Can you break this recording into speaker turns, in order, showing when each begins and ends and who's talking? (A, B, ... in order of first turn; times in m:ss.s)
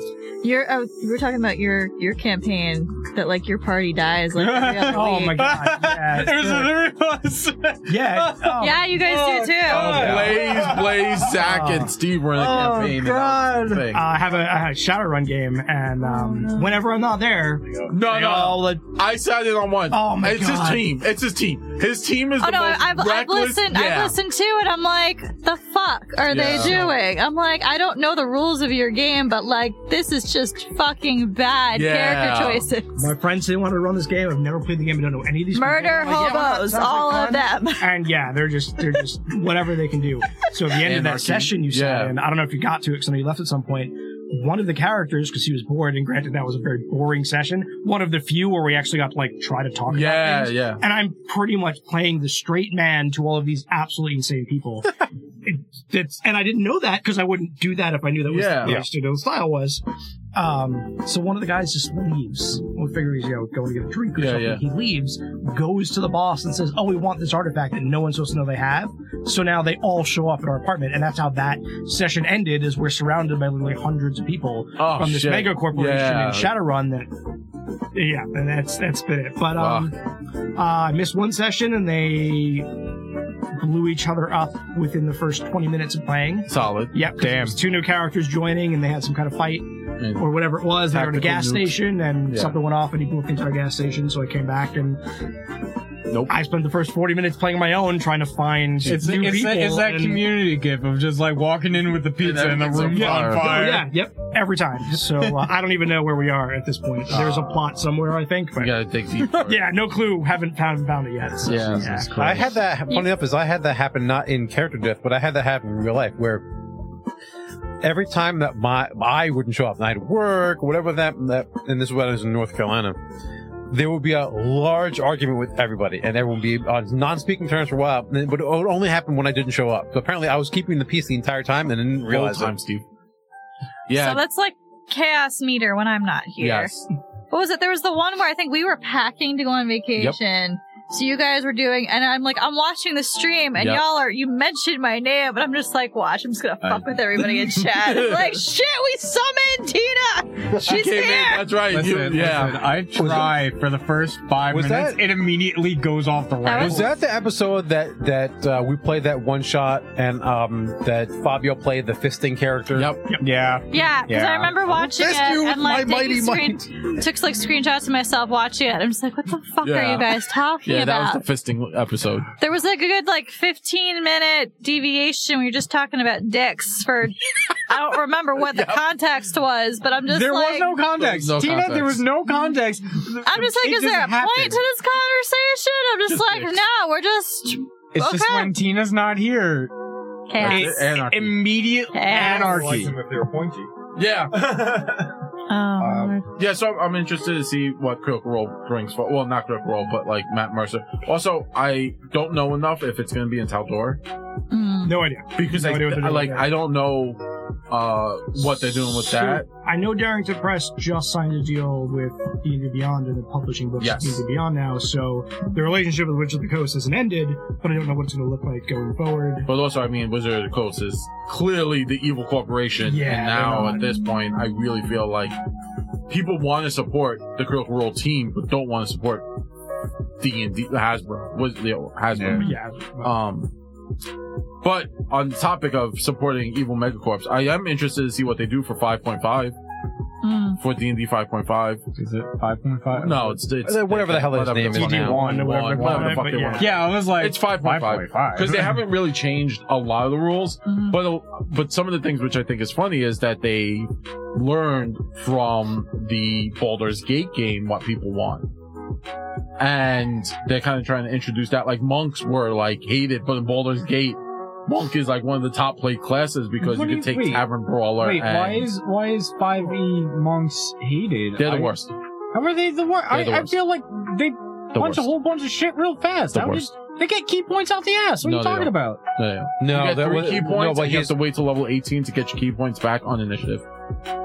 0:00.4-0:05.4 A
0:04.4-0:10.8 B
0:04.9-0:06.8 C
0:07.9-0:09.0 C
0:08.6-0:10.2 A
0:09.6-0:14.0 D
0:09.8-0:18.8 C
0:12.6-0:13.8 B
0:16.0-0:16.8 A
0:17.9-0:24.2 D
0:19.9-0:20.9 C
0:22.4-0:33.1 A
0:26.3-0:26.9 D
0:26.6-0:26.9 C
0:31.7-0:32.7 D
0:33.0-0:59.8 C
0:35.5-0:37.9 A
0:40.8-0:42.1 D
0:49.9-0:50.8 D
0:58.3-0:58.8 D
1:00.3-1:17.1 C
1:04.2-1:04.6 D
1:14.8-1:16.5 D
1:17.9-1:20.0 C
1:19.6-1:19.9 D
1:20.6-1:22.8 C
1:23.5-1:35.0 C
1:26.5-1:27.0 D
1:27.2-1:27.6 B
1:30.0-1:30.3 D
1:30.9-1:31.8 D
1:32.3-1:32.6 D
1:36.1-1:36.4 D
1:36.3-1:40.3 C
1:38.9-1:43.9 B
1:42.2-1:43.8 D
1:42.9-1:48.8 C
1:45.2-1:45.5 B
1:47.1-1:47.8 D
1:48.6-1:49.6 D
1:49.4-1:52.4 C
1:51.4-1:52.6 D
1:52.2-1:56.4 E
1:57.8-2:03.0 E
2:03.7-2:12.5 E
2:12.1-2:12.8 D
2:13.9-2:14.2 D
2:13.9-2:16.8 A
2:16.4-2:16.9 D
2:17.3-2:31.5 A
2:23.6-2:23.8 D
2:27.2-2:28.4 D
2:30.5-2:32.8 D
2:31.7-2:36.9 B
2:32.9-2:33.4 E
2:34.5-2:35.0 E
2:36.4-2:36.9 A
2:36.6-2:43.0 E
2:42.8-2:43.0 D
2:43.2-2:44.6 B
2:43.7-2:51.2 A
2:44.7-2:46.9 E
2:49.6-2:52.3 D
2:52.4-3:00.8 A
2:58.4-2:58.8 D
3:00.1-3:04.6 B
3:01.0-3:02.0 D
3:02.3-3:02.6 A
3:03.2-3:08.5 A
3:06.1-3:06.6 D
3:07.9-3:09.7 B
3:10.3-3:10.8 A
3:10.4-3:13.0 B
3:10.4-3:11.5 D
3:11.9-3:12.5 A
3:12.1-3:13.7 F
3:14.0-3:14.7 D
3:14.3-3:15.2 F
3:15.5-3:16.2 A
3:15.9-3:24.0 D
3:24.5-3:25.0 A
3:24.8-3:26.5 C
3:25.4-3:29.5 D
3:28.8-3:39.5 C
3:33.8-3:34.2 D
3:39.5-3:45.4 D
3:42.8-3:43.9 C
3:46.1-3:49.3 D
3:50.2-3:52.5 D
3:52.1-3:52.4 B
3:52.4-3:53.2 C
3:53.0-3:53.5 D
3:54.6-3:59.6 D
4:00.2-4:00.6 A
4:00.6-4:01.8 D
4:02.0-4:03.4 B
4:02.9-4:18.5 D
4:03.6-4:05.3 E
4:04.8-4:06.8 C
4:04.8-4:08.8 B
4:10.7-4:11.0 A
4:19.6-4:28.7 D
4:26.6-4:27.5 B
4:28.0-4:31.8 B
4:31.4-4:31.9 D
4:32.3-4:39.0 B
4:33.1-4:33.6 D
4:34.7-4:35.1 D
4:36.3-4:36.7 D
4:38.2-4:43.6 D
4:39.6-4:41.1 E